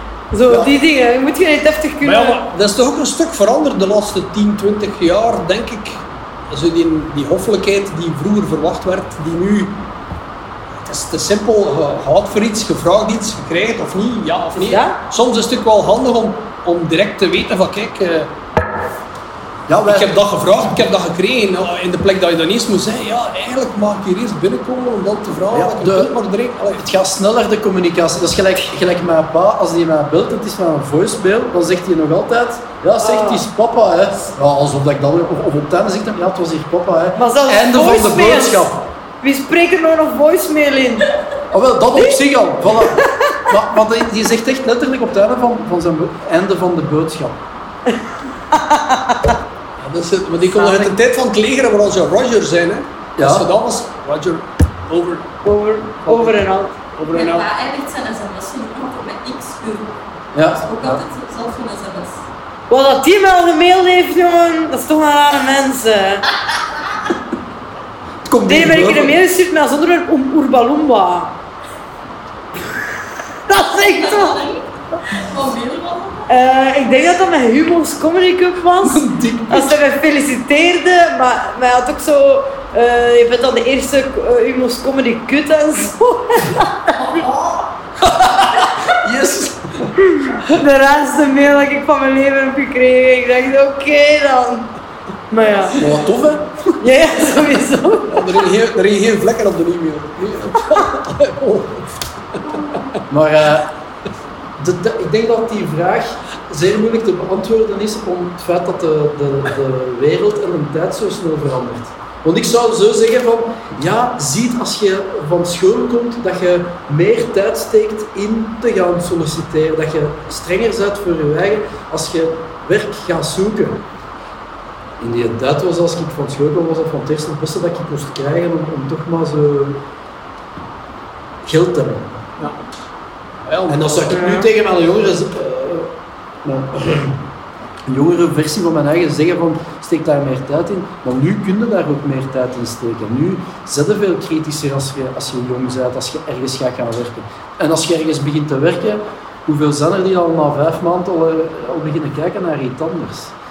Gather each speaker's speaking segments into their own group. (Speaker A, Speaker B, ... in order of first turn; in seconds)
Speaker A: 0.3-2.4, 14.6-15.0, 33.0-33.4, 37.2-41.1, 43.0-43.4, 48.5-49.3, 55.4-56.8, 62.7-66.3, 68.5-71.4, 73.5-74.4, 76.3-87.3, 90.1-94.7, 95.3-95.8, 96.8-98.2, 134.1-134.5
Speaker B: 2.0-9.8, 10.8-18.3, 19.9-26.9, 49.8-55.3, 56.0-56.5, 57.0-57.5, 98.1-102.8, 133.5-134.1
Speaker C: 19.7-20.2, 25.5-26.2, 26.8-38.8, 41.5-47.4, 50.5-50.9, 53.2-53.5, 60.3-61.0, 68.2-69.2, 78.8-79.8, 88.0-89.9, 95.8-96.7, 103.1-103.7, 104.6-123.8, 125.0-129.8, 131.4-132.2, 133.7-135.9, 136.4-137.2, 137.8-153.3
Speaker D: 57.1-60.0, 60.6-62.2, 73.7-76.3, 87.0-87.7